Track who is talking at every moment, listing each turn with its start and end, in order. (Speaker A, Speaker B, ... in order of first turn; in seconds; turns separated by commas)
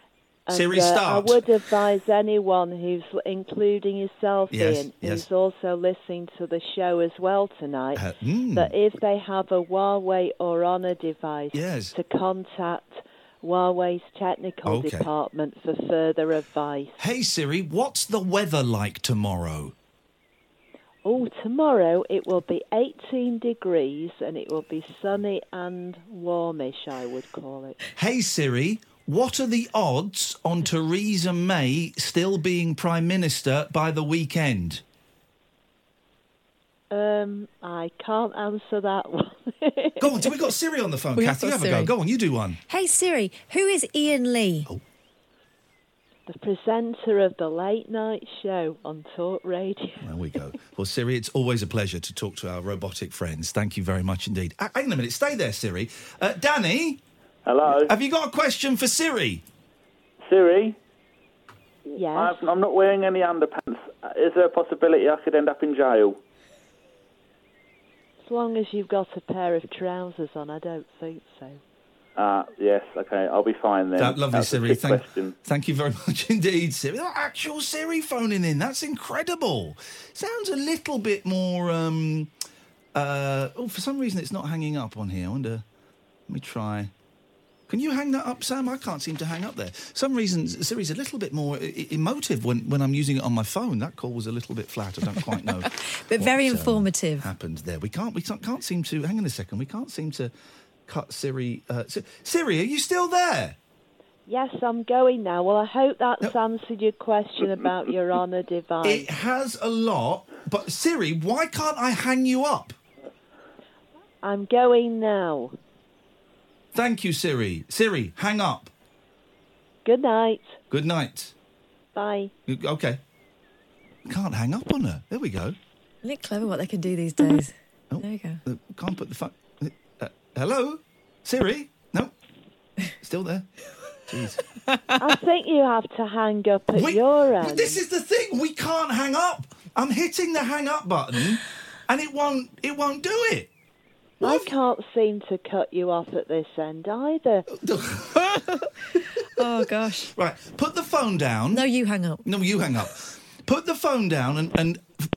Speaker A: 0.5-8.0, Speaker B: 0.5-1.4, Speaker B: 4.5-5.2, Speaker B: 7.9-8.7, Speaker A: 8.5-17.0, Speaker B: 11.5-11.9, Speaker B: 14.6-15.1, Speaker B: 17.0-19.7, Speaker A: 21.1-27.8, Speaker B: 28.0-34.8, Speaker A: 36.9-40.3, Speaker B: 40.0-42.6, Speaker C: 41.1-41.9, Speaker C: 42.7-44.7, Speaker A: 46.3-50.0, Speaker B: 50.0-57.0, Speaker D: 57.4-57.9, Speaker B: 57.9-59.4, Speaker D: 60.3-60.8, Speaker A: 61.9-62.4, Speaker D: 62.0-66.2, Speaker A: 68.2-71.6, Speaker D: 72.2-75.3, Speaker B: 74.0-82.3, Speaker B: 82.9-85.6, Speaker B: 86.3-86.9, Speaker B: 87.7-100.3, Speaker C: 95.9-97.3, Speaker B: 100.9-103.6, Speaker A: 104.3-109.1, Speaker B: 108.8-112.8, Speaker A: 114.2-115.6, Speaker B: 116.7-118.7, Speaker A: 119.8-120.6, Speaker B: 120.7-121.3, Speaker A: 121.9-122.3, Speaker B: 122.5-123.0, Speaker B: 124.1-125.6, Speaker C: 126.0-128.4, Speaker B: 127.9-132.1, Speaker B: 133.0-133.5, Speaker B: 134.1-134.4, Speaker A: 135.0-137.8, Speaker B: 136.7-143.5, Speaker B: 144.2-144.5, Speaker A: 144.2-147.5, Speaker B: 147.6-148.6, Speaker C: 149.4-150.1, Speaker B: 150.1-151.6, Speaker C: 151.5-152.2, Speaker B: 152.2-154.9